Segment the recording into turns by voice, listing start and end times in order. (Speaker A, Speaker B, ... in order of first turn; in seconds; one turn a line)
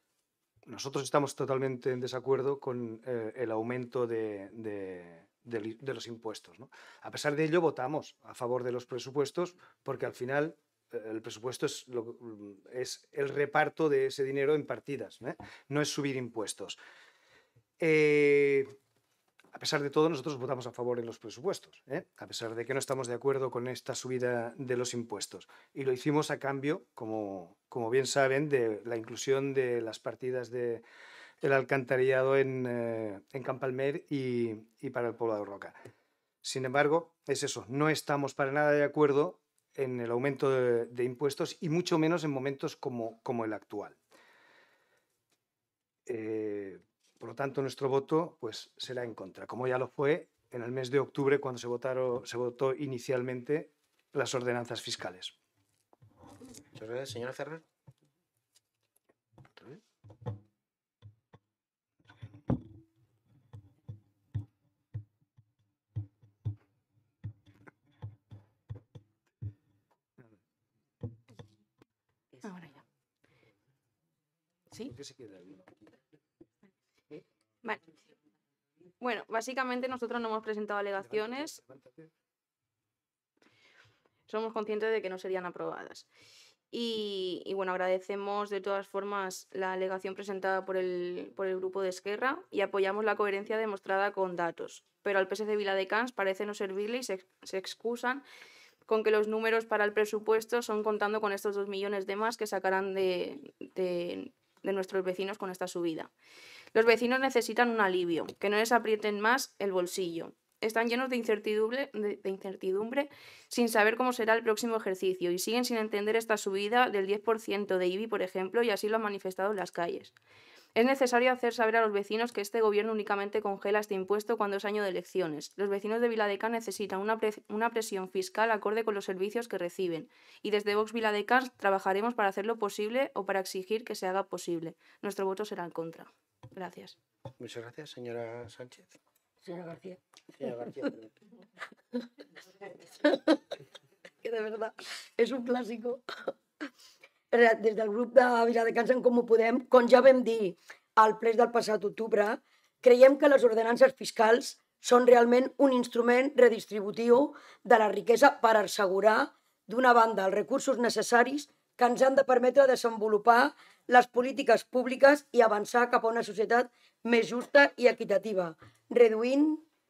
Speaker A: 0.7-16.8
Speaker A: 17.8-18.7
Speaker A: 19.5-30.8
Speaker A: 31.4-35.7
Speaker A: 36.4-44.0
Speaker A: 46.1-55.3
Speaker B: 56.7-57.6
Speaker C: 72.4-72.8
Speaker A: 74.8-75.6
Speaker C: 79.0-81.5
Speaker A: 81.1-82.1
Speaker C: 84.3-86.0
Speaker C: 86.7-98.2
Speaker C: 98.9-106.1
Speaker C: 106.7-120.1
Speaker C: 120.7-136.9
Speaker B: 137.4-139.0
Speaker D: 139.4-140.0
Speaker B: 140.4-141.1
Speaker D: 143.1-143.3
Speaker D: 144.2-146.3
Speaker D: 147.3-169.6